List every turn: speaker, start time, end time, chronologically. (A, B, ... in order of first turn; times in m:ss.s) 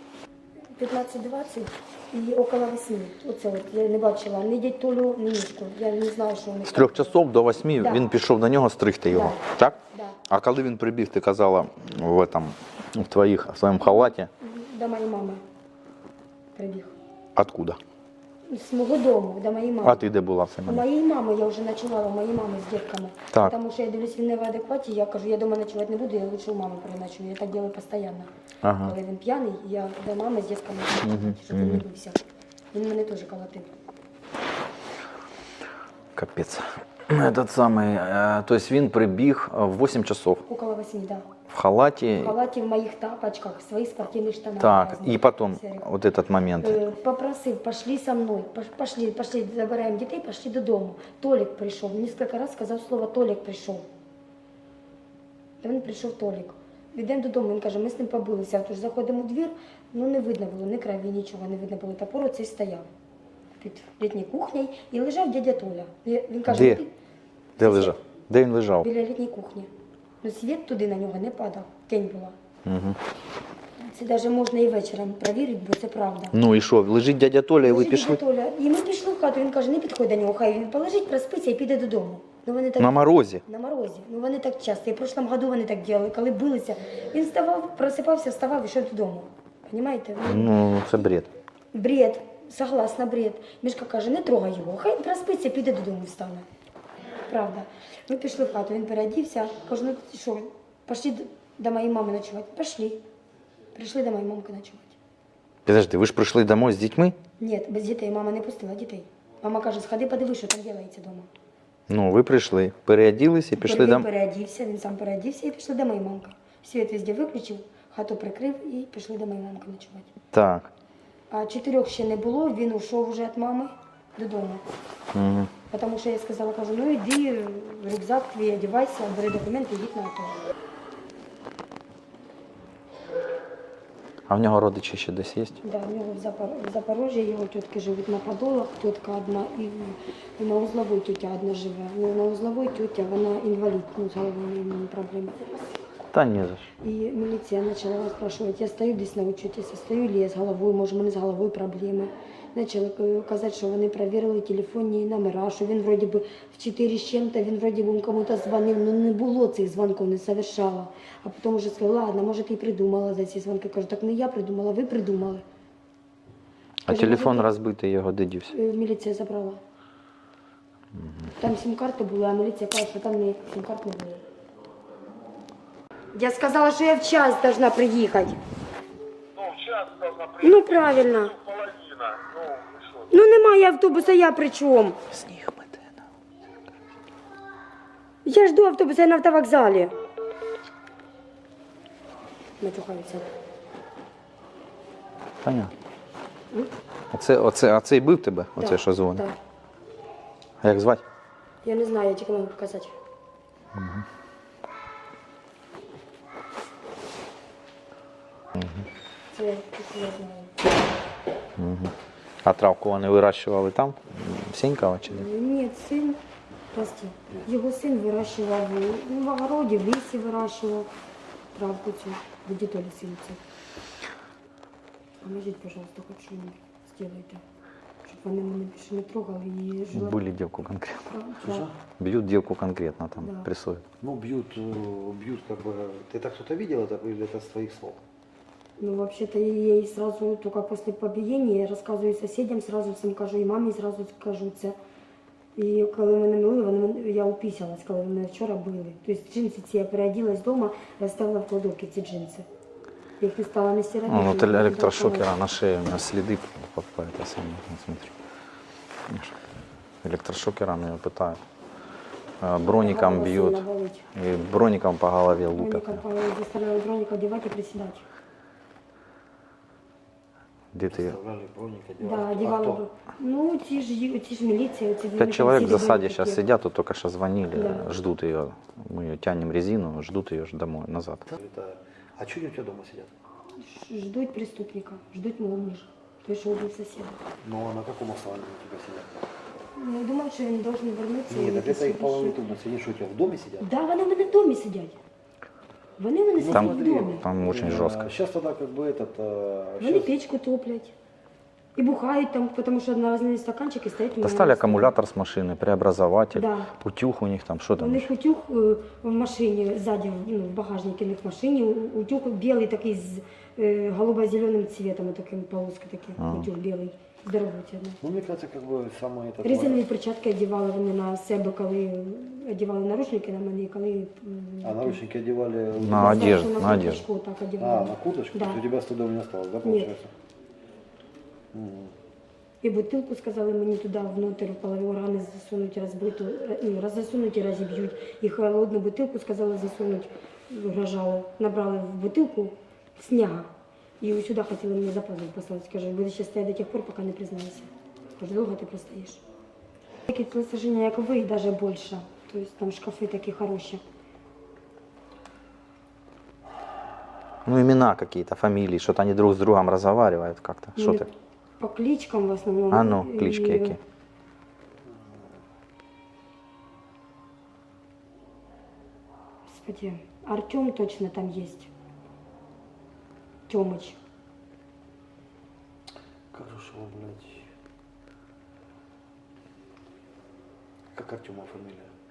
0:00.8-0:07.2 A
0:06.7-0:14.3 B
0:07.8-0:08.0 A
0:09.1-0:10.2 A
0:14.4-0:15.4 A
0:16.6-0:17.0 A
0:17.4-0:17.8 B
0:18.5-0:20.0 A
0:19.8-0:20.8 B
0:20.6-0:32.2 A
0:28.6-0:29.0 B
0:31.0-0:31.8 B
0:32.7-0:33.7 A
0:36.2-0:40.4 B
0:40.5-0:41.3 A
0:41.5-0:42.4 B
0:42.2-0:45.9 A
0:44.6-0:46.8 B
0:46.6-0:53.9 A
0:55.6-1:02.9 A
1:03.6-1:06.9 A
1:06.5-1:06.8 B
1:07.6-1:08.9 B
1:07.6-1:08.0 A
1:08.8-1:09.7 A
1:10.2-1:12.4 A
1:12.6-1:13.0 B
1:13.8-1:16.4 A
1:16.3-1:18.2 B
1:17.6-1:30.6 A
1:22.8-1:23.4 B
1:30.2-1:31.3 B
1:31.7-1:36.5 A
1:37.2-1:43.0 A
1:43.7-1:45.0 A
1:45.7-1:47.2 B
1:47.4-1:51.3 A
1:51.9-1:54.1 B
1:53.6-2:00.1 A
2:00.3-2:00.7 B
2:01.3-2:04.7 A
2:05.1-2:05.5 B
2:05.7-2:10.4 A
2:14.3-2:15.6 B
2:15.6-2:25.7 A
2:26.1-2:26.7 B
2:26.8-2:45.4 A
2:46.9-2:48.5 B
2:46.9-2:47.5 A
2:48.5-2:49.6 A
2:50.9-2:51.3 B
2:51.4-2:54.2 A
2:56.1-2:58.4 A
2:59.3-3:03.1 C
3:00.4-3:01.4 A
3:03.1-3:05.0 A
3:05.1-3:06.0 B
3:08.2-3:09.9 A
3:12.6-3:13.3 A
3:15.4-3:15.7 B
3:17.1-3:19.2 B
3:18.6-3:19.4 A
3:20.6-3:21.0 B
3:21.6-3:23.0 A
3:23.8-3:24.0 B
3:28.6-3:28.9 B
3:29.3-3:30.7 A
3:31.6-3:35.2 B
3:35.1-3:36.2 A
3:36.7-3:40.9 A
3:41.6-3:43.4 A
3:45.2-3:47.4 A
3:48.0-3:50.2 A
3:49.9-3:51.1 B
3:51.1-3:51.7 A
3:51.4-3:51.7 D
3:52.0-3:53.8 B
3:53.2-3:53.5 A
3:54.0-3:58.0 D
3:58.8-4:04.8 A
4:05.6-4:12.5 A
4:13.2-4:15.3 A
4:14.1-4:18.2 B
4:19.1-4:19.4 B
4:20.0-4:21.4 B
4:22.4-4:26.0 B
4:22.6-4:24.1 A
4:25.6-4:28.1 A
4:30.7-4:31.2 B
4:30.9-4:32.8 D
4:32.0-4:36.4 A
4:35.2-4:41.2 B
4:37.6-4:37.9 A
4:41.3-4:43.1 D
4:43.6-4:47.2 A
4:47.4-4:49.1 D
4:49.8-4:52.4 A
4:51.3-4:53.7 D
4:53.6-4:55.0 A
4:56.0-4:57.3 A
4:56.4-5:00.1 D
4:56.5-4:58.1 B
4:59.8-5:00.9 A
5:01.8-5:04.9 A
5:04.2-5:08.1 B
5:06.3-5:06.7 A
5:07.8-5:18.0 A
5:16.2-5:16.5 B
5:18.0-5:19.8 D
5:19.4-5:25.0 A
5:24.6-5:26.5 D
5:25.8-5:27.0 B
5:25.9-5:28.6 A
5:27.6-5:30.1 D
5:29.6-5:29.9 A
5:31.5-5:31.9 D
5:32.6-5:49.2 A
5:50.1-5:53.8 A
5:57.4-6:01.1 B
6:00.8-6:01.1 A
6:01.6-6:03.8 A
6:02.7-6:03.8 B
6:09.5-6:11.7 A
6:13.5-6:14.0 A
6:16.3-6:17.5 D
6:20.9-6:21.9 D